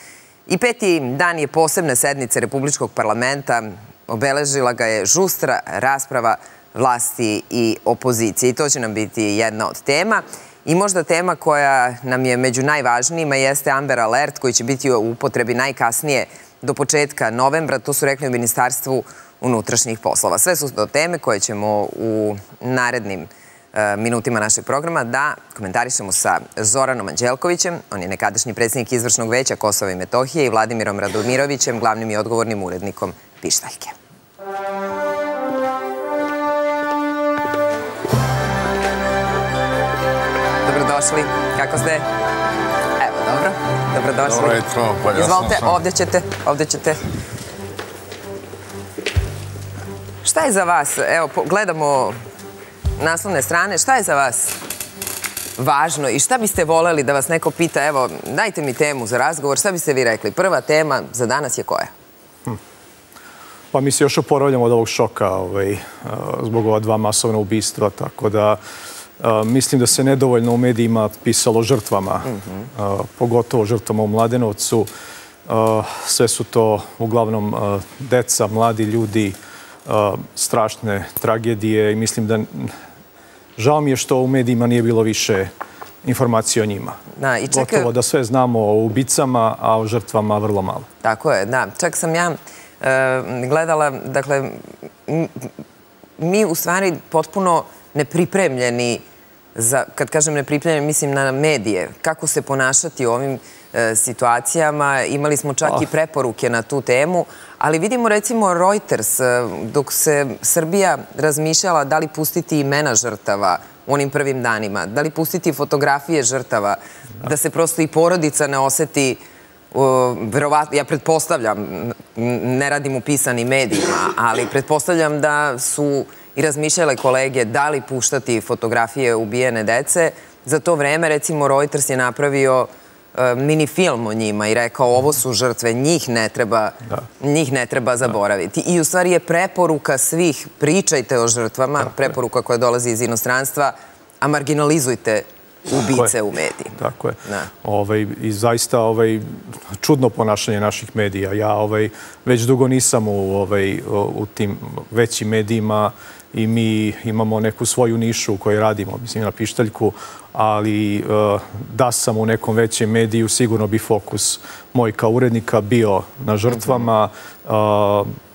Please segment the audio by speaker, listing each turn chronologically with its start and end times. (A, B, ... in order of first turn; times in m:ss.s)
0:00.5-0:34.0 A
0:40.6-0:42.1 A
0:43.0-0:47.0 A
0:50.2-0:52.2 A
0:53.0-0:54.6 A
0:55.6-1:01.9 A
1:03.7-1:08.6 B
1:09.2-1:14.9 B
1:12.3-1:12.6 A
1:15.5-1:22.7 B
1:23.6-1:25.5 B
1:26.0-1:27.0 B
1:27.2-1:27.9 A
1:27.5-1:30.9 B
1:31.0-1:35.5 A
1:36.2-1:39.0 A
1:39.6-1:59.2 A
1:59.7-2:27.5 A
2:26.8-2:48.2 B